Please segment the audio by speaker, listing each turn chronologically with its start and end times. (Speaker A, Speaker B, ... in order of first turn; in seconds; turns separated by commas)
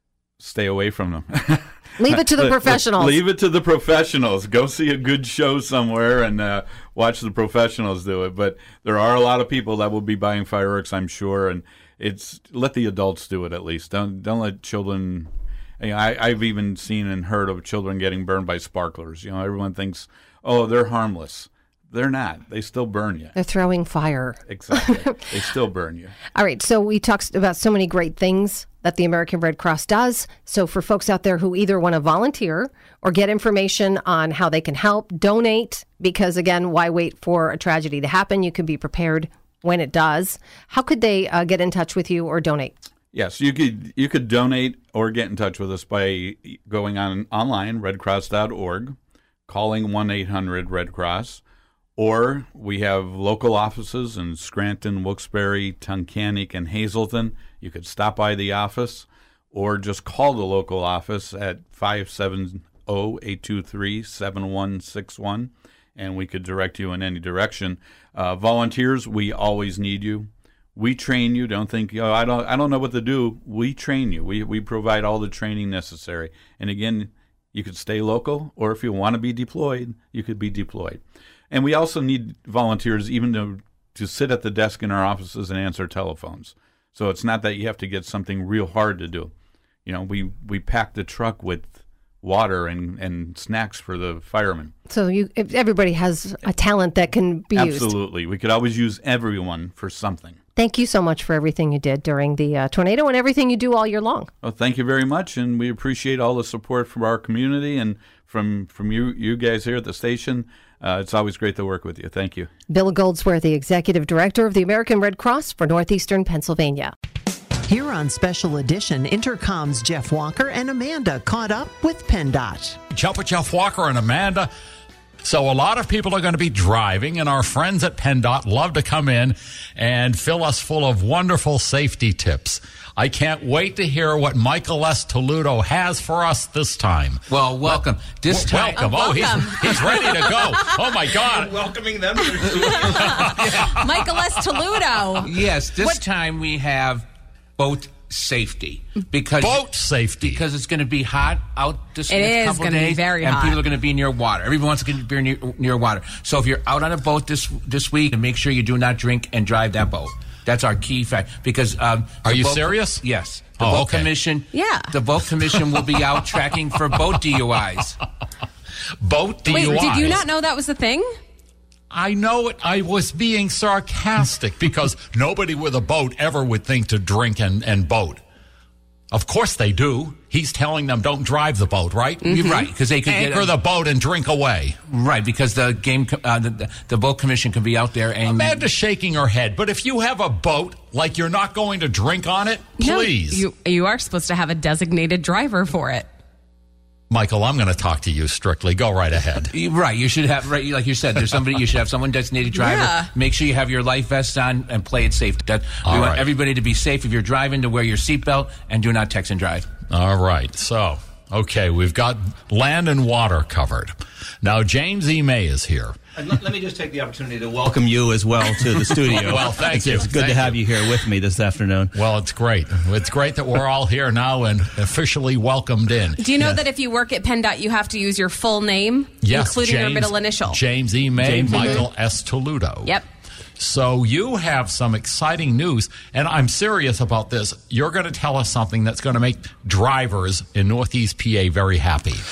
Speaker A: 0.4-23.3, Speaker B: 2.0-3.2, Speaker B: 23.3-25.0, Speaker A: 24.5-26.1, Speaker B: 26.3-42.7, Speaker A: 43.1-49.0, Speaker A: 49.5-51.4, Speaker A: 52.0-89.3, Speaker A: 89.8-94.7, Speaker B: 94.9-97.9, Speaker A: 97.5-100.4, Speaker B: 100.5-104.3, Speaker A: 104.4-112.5, Speaker B: 112.7-116.9, Speaker C: 117.7-122.8, Speaker D: 122.9-124.5, Speaker D: 125.2-141.5, Speaker E: 137.3-139.8, Speaker F: 138.7-140.6, Speaker G: 141.2-143.2, Speaker D: 142.9-144.6, Speaker F: 143.7-145.3, Speaker E: 145.3-168.0, Speaker D: 149.4-150.4, Speaker F: 152.1-153.6, Speaker D: 162.2-163.0, Speaker D: 163.6-164.1, Speaker F: 164.5-164.9, Speaker D: 169.0-170.2, Speaker F: 169.5-171.2, Speaker D: 171.9-178.2, Speaker D: 179.1-182.4, Speaker F: 182.2-182.6, Speaker E: 182.2-183.6, Speaker D: 183.1-184.8, Speaker E: 184.9-188.7, Speaker D: 188.3-193.4, Speaker F: 192.8-196.1, Speaker D: 197.1-199.5, Speaker E: 199.5-209.7, Speaker F: 202.5-203.1, Speaker D: 205.8-206.2, Speaker D: 209.9-216.0, Speaker G: 216.2-222.0, Speaker D: 219.0-220.9, Speaker D: 221.9-226.6, Speaker F: 226.2-230.6, Speaker D: 229.2-233.0, Speaker G: 231.2-231.8, Speaker F: 231.5-231.8, Speaker D: 233.6-242.2